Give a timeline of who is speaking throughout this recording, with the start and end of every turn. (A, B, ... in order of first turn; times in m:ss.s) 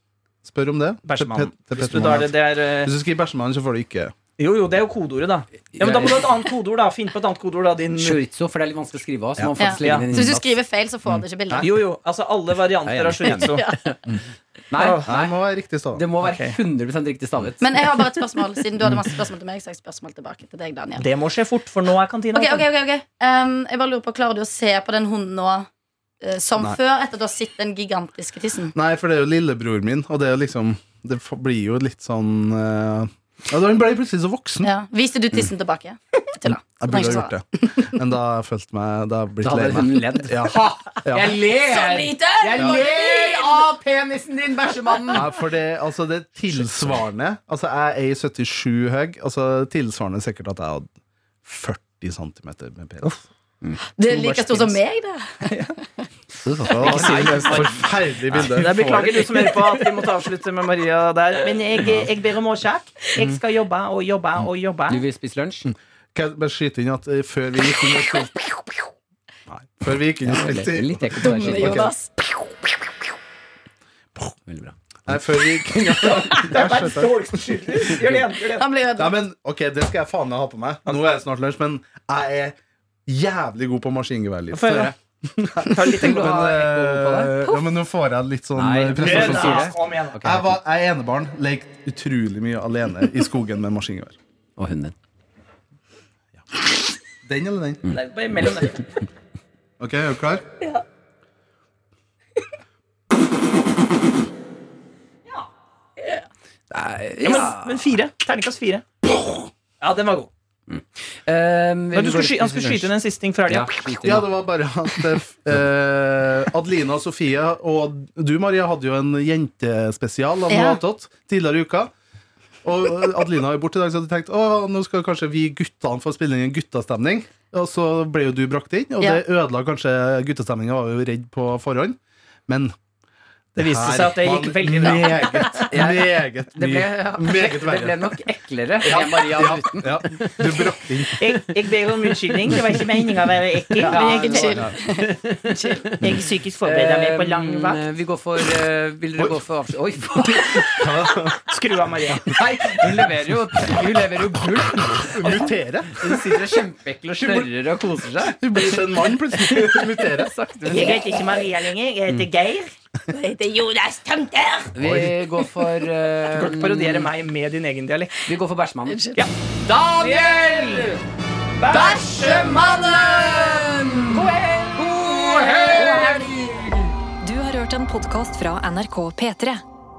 0:00.4-0:04.1 A
0:01.0-0:02.9 B
0:04.4-0:08.2 B
0:05.7-0:06.4 C
0:08.0-0:10.5 C
0:09.6-0:11.7 D
0:09.8-0:10.1 B
0:11.6-0:14.2 B
0:12.9-0:14.0 C
0:13.2-0:13.8 D
0:14.7-0:15.4 C
0:14.8-0:15.1 B
0:15.1-0:16.1 A
0:15.9-0:17.8 C
0:16.2-0:16.6 B
0:17.6-0:21.1 D
0:21.0-0:22.7 B
0:22.3-0:25.7 D
0:26.2-0:28.7 D
0:28.7-0:34.7 A
0:34.6-0:37.9 D
0:36.4-0:41.4 A
0:39.4-0:45.3 C
0:41.5-0:43.7 D
0:42.6-0:42.8 A
0:45.1-0:50.9 A
0:51.4-0:53.2 A
0:53.6-0:54.8 C
0:54.0-0:55.7 D
0:56.4-0:58.5 C
0:56.6-0:59.5 A
0:56.8-0:57.7 B
0:58.5-1:05.0 B
1:04.9-1:05.7 C
1:06.2-1:08.5 A
1:09.5-1:11.9 A
1:10.2-1:11.9 C
1:11.2-1:12.5 D
1:14.5-1:16.3 C
1:15.1-1:17.4 A
1:16.4-1:18.6 B
1:17.9-1:18.2 C
1:18.5-1:19.2 D
1:19.0-1:22.6 A
1:23.1-1:34.2 A
1:24.5-1:24.9 B
1:24.7-1:25.0 C
1:25.7-1:26.3 B
1:26.0-1:27.4 C
1:28.6-1:30.6 C
1:29.0-1:30.2 B
1:34.6-1:34.9 C
1:37.2-1:37.9 A
1:37.9-1:38.9 B
1:39.8-1:40.4 A
1:46.7-1:47.9 C
1:47.2-1:48.8 B
1:49.8-1:50.3 B
1:50.7-1:52.9 C
1:51.9-1:54.0 B
1:53.5-1:54.3 C
1:54.0-2:01.9 A
2:00.5-2:00.8 D
2:02.6-2:12.8 A
2:13.6-2:15.5 B
2:13.6-2:18.2 A
2:15.5-2:20.7 C
2:18.8-2:21.2 A
2:21.2-2:24.7 B
2:22.5-2:22.8 C
2:23.8-2:25.8 D
2:23.8-2:30.8 C
2:24.5-2:24.8 A
2:25.9-2:27.8 B
2:29.2-2:29.4 A
2:30.2-2:31.5 A
2:31.5-2:32.3 B
2:32.3-2:41.3 C
2:35.0-2:36.4 A
2:38.4-2:40.3 A
2:40.6-2:41.5 D
2:40.7-2:42.7 B
2:43.1-2:44.8 D
2:44.8-2:47.1 C
2:44.8-2:45.2 A
2:46.3-2:48.2 B
2:48.2-2:49.0 C
2:48.9-2:49.2 D
2:49.6-2:51.0 C
2:50.0-2:50.3 B
2:51.6-2:52.5 B
2:51.7-2:56.9 C
2:54.2-2:54.5 B
2:55.7-2:56.2 E
2:56.0-2:56.3 D
2:57.2-2:59.6 E